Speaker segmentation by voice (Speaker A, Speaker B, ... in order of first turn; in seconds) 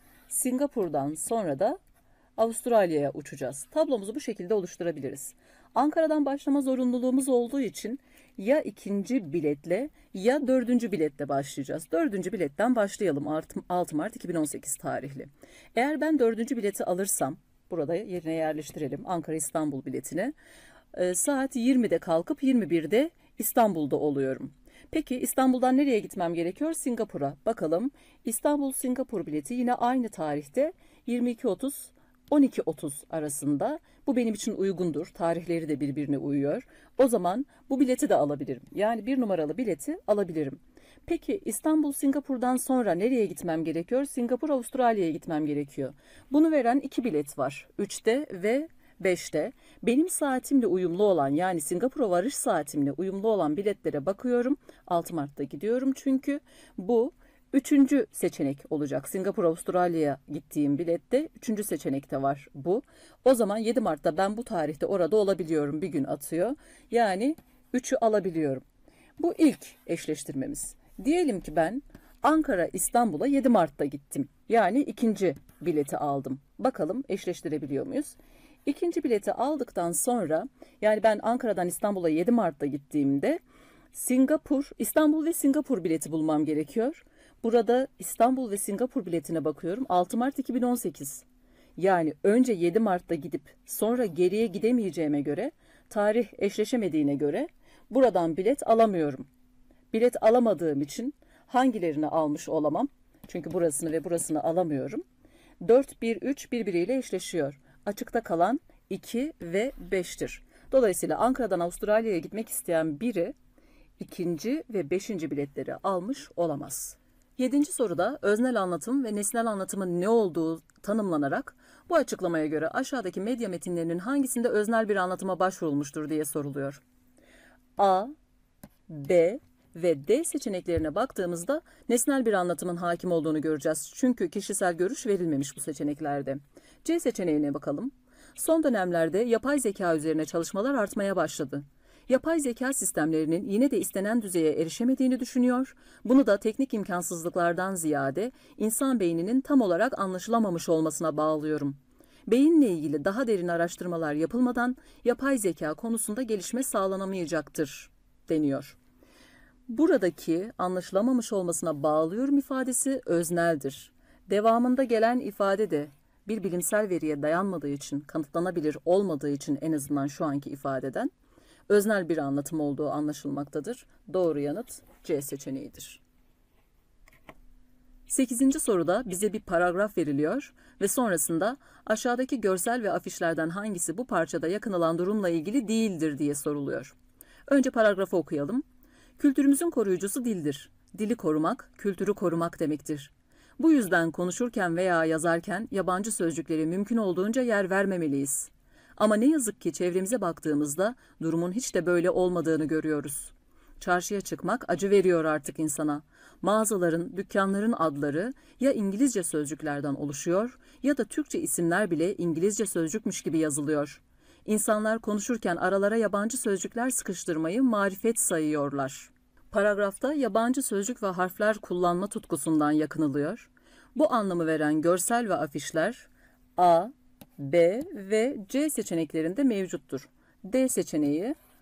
Speaker A: 0.3-1.8, 2.4-20.3, 20.9-68.6, 69.2-83.4, 83.9-91.2, 91.8-99.2, 99.9-105.0, 105.6-113.3, 114.0-126.8, 127.8-128.1, 128.9-158.8, 159.7-171.1, 171.7-176.0, 178.1-186.9, 187.5-188.6, 189.2-231.3